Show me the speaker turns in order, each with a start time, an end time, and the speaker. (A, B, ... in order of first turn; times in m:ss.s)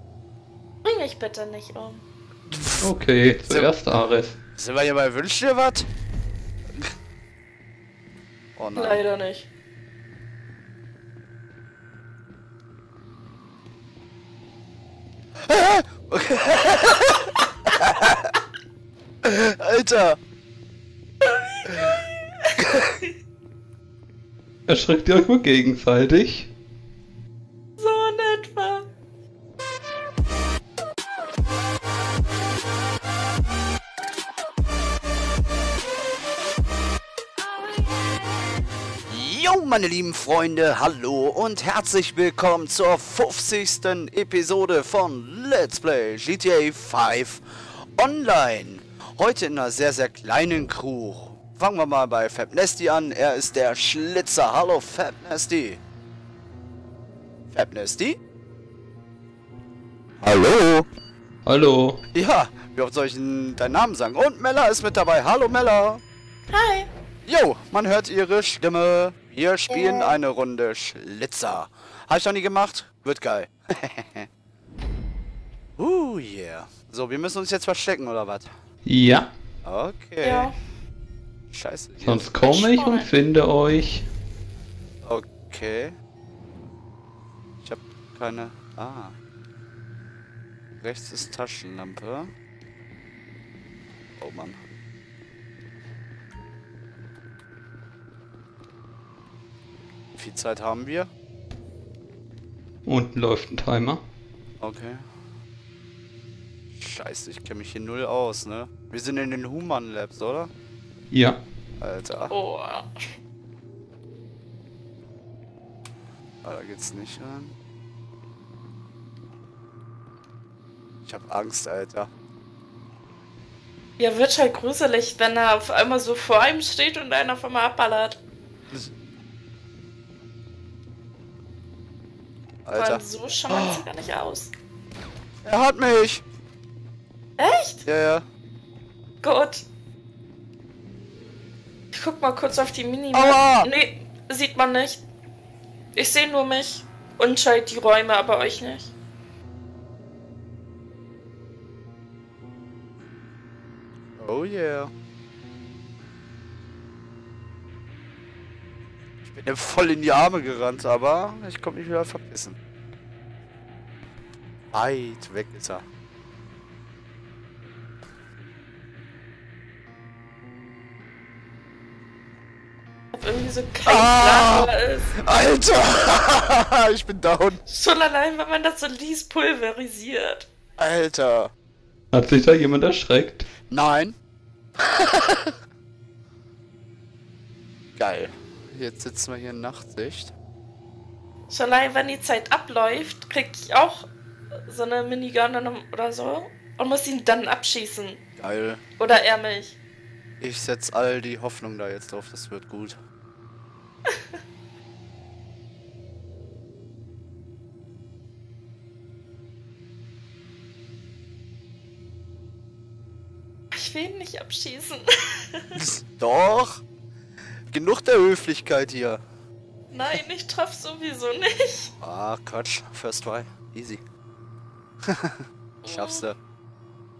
0:00.8-0:02.0 A
0:02.5-0:02.9 B
0:02.8-0:04.4 C
0:04.6-0:05.9 B
0:08.6-0:09.0 B
0:08.7-0:09.5 A
0:15.4-0:18.3 B
0:19.2-0:20.2 B
0:21.2-0:22.5 A
0:21.7-0:21.9 B
0:22.6-0:23.0 B
0:24.7-0:26.5 C
0:27.8-0:28.9 A
0:39.1-0:55.8 B
0:57.5-0:58.2 B
1:00.2-1:00.9 B
1:01.4-1:02.0 C
1:02.1-1:06.0 B
1:06.5-1:06.9 A
1:07.2-1:14.3 B
1:09.7-1:10.2 A
1:15.8-1:18.5 B
1:18.8-1:19.3 C
1:19.6-1:20.5 B
1:20.2-1:20.5 A
1:21.5-1:22.2 B
1:22.0-1:24.0 C
1:22.4-1:23.1 A
1:25.0-1:25.9 B
1:27.6-1:29.2 B
1:30.8-1:32.3 B
1:34.2-1:34.6 B
1:40.1-1:41.1 B
1:42.8-1:44.0 C
1:44.6-1:45.0 B
1:46.7-1:50.5 B
1:51.1-1:51.4 C
1:51.8-1:52.3 B
1:52.3-1:53.0 A
1:56.4-1:57.5 B
2:01.0-2:02.1 B
2:04.0-2:08.2 A
2:12.6-2:13.8 B
2:12.7-2:14.5 A
2:15.4-2:16.2 B
2:17.4-2:17.8 A
2:17.8-2:18.2 B
2:19.2-2:19.6 A
2:21.9-2:25.0 A
2:23.1-2:23.7 B
2:25.9-2:28.9 A
2:34.2-2:34.9 B
2:39.2-2:42.6 B
2:44.7-2:45.8 B
2:53.1-2:55.1 A
2:53.8-2:57.6 B
2:57.6-3:00.5 A
3:00.8-3:01.5 B
3:02.1-3:03.5 C
3:03.7-3:04.2 B
3:04.8-3:05.5 B
3:08.0-3:10.3 B
3:11.5-3:14.1 A
3:14.7-3:18.2 A
3:18.4-3:18.8 B
3:19.0-3:19.8 A
3:20.4-3:23.0 B
3:24.1-3:24.4 A
3:33.7-3:35.8 A
3:35.7-3:36.8 B
3:37.7-3:39.2 B
3:39.9-3:41.9 A
3:42.0-3:44.0 B
3:45.0-3:46.4 B
3:45.8-3:46.3 A